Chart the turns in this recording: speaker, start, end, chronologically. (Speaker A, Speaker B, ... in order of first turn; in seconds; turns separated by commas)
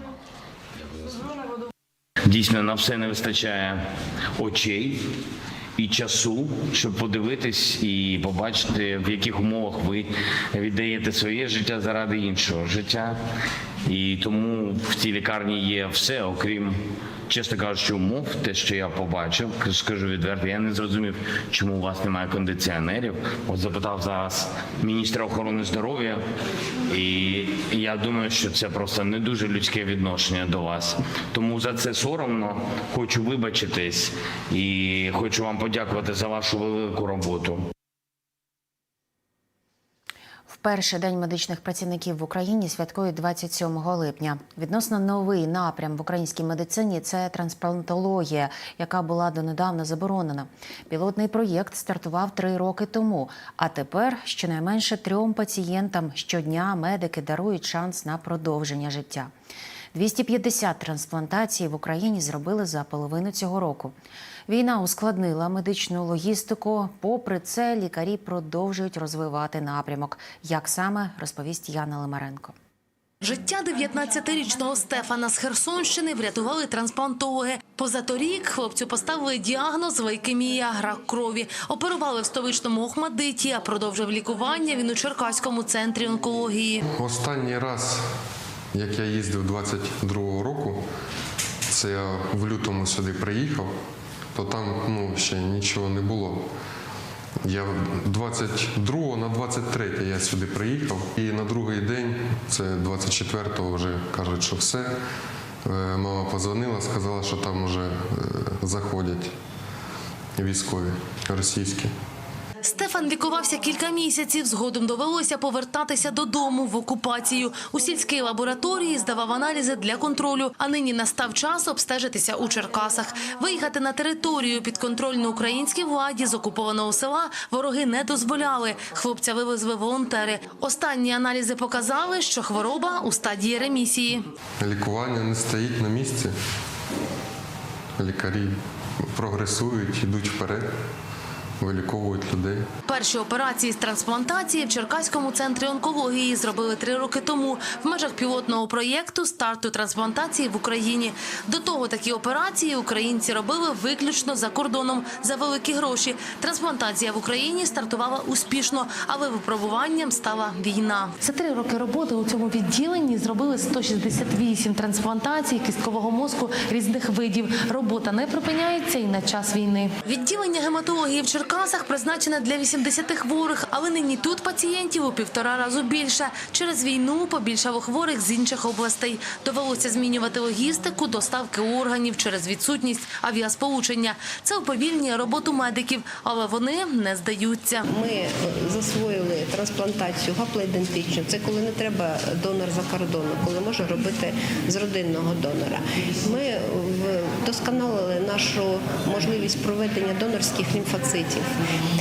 Speaker A: 2.3-3.8, Speaker A: 4.4-5.0, Speaker A: 5.8-13.1, Speaker A: 13.8-16.8, Speaker A: 17.3-26.2, Speaker A: 26.9-37.6, Speaker B: 40.5-59.3, Speaker B: 59.9-63.9, Speaker B: 64.5-72.5, Speaker C: 73.2-86.8, Speaker D: 86.9-88.0, Speaker D: 88.7-90.8, Speaker D: 91.7-93.7, Speaker D: 94.3-96.4, Speaker D: 97.4-104.9, Speaker D: 105.7-109.3, Speaker D: 110.4-111.9, Speaker C: 112.6-134.3, Speaker D: 134.6-136.3, Speaker D: 138.0-140.7, Speaker D: 141.6-142.7, Speaker C: 142.9-187.8, Speaker E: 187.9-201.5